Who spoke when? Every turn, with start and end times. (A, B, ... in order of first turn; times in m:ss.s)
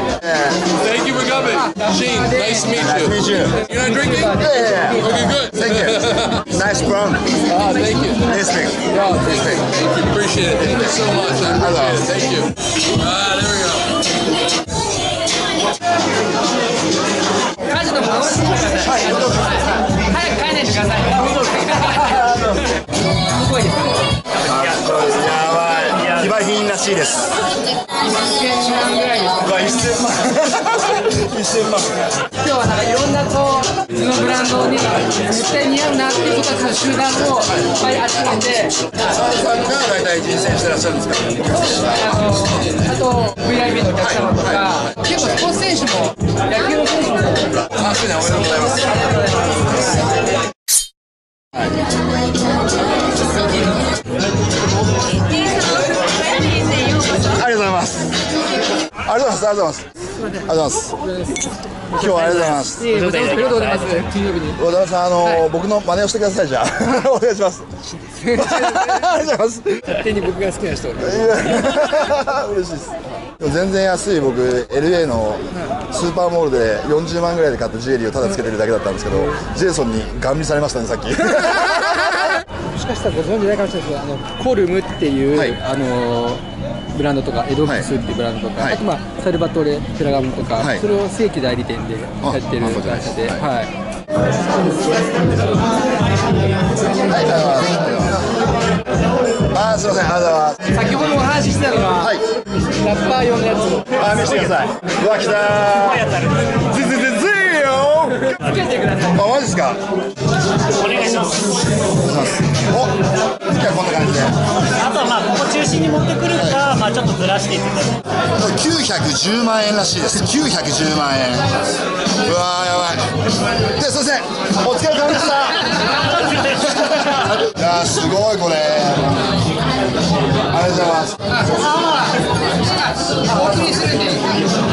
0:00.2-0:00.7 A
0:00.8-0:04.3 B
0:01.7-0:02.6 C
0:02.7-0:03.6 A
0:04.3-0:07.4 A
0:05.1-0:06.2 B
0:07.6-0:08.2 B
0:08.2-0:09.7 A
0:09.1-0:13.9 B
0:11.5-0:12.1 A
0:17.7-0:22.5 C
0:18.8-0:19.6 A
0:23.4-0:24.0 C
0:24.4-0:27.4 A
0:28.1-0:29.4 C
0:29.4-0:32.1 A
0:32.4-0:38.8 C
0:39.0-0:42.4 A
0:41.8-0:47.5 C
0:44.0-0:44.8 A
0:47.8-0:48.9 A
0:57.2-0:58.2 A
0:59.0-1:01.0 A
1:01.9-1:03.0 A
1:02.0-1:04.6 C
1:03.0-1:04.0 D
1:04.6-1:07.7 A
1:08.2-1:09.0 C
1:08.2-1:10.0 A
1:09.9-1:11.2 C
1:11.0-1:22.2 A
1:22.8-1:33.7 C
1:32.2-1:33.5 A
1:37.0-1:38.3 A
1:39.4-1:40.7 A
1:40.7-1:42.1 C
1:42.0-1:42.2 A
1:42.8-1:44.0 C
1:44.0-1:48.4 A
1:45.8-1:46.5 D
1:49.0-1:49.8 A
1:50.7-1:51.6 D
1:52.0-1:54.4 A
1:54.6-1:58.0 D
1:56.4-1:56.6 A
1:58.4-2:01.6 A
2:02.2-2:05.9 A
2:06.4-2:09.3 A
2:10.5-2:11.2 A
2:11.5-2:12.1 C
2:13.1-2:14.2 C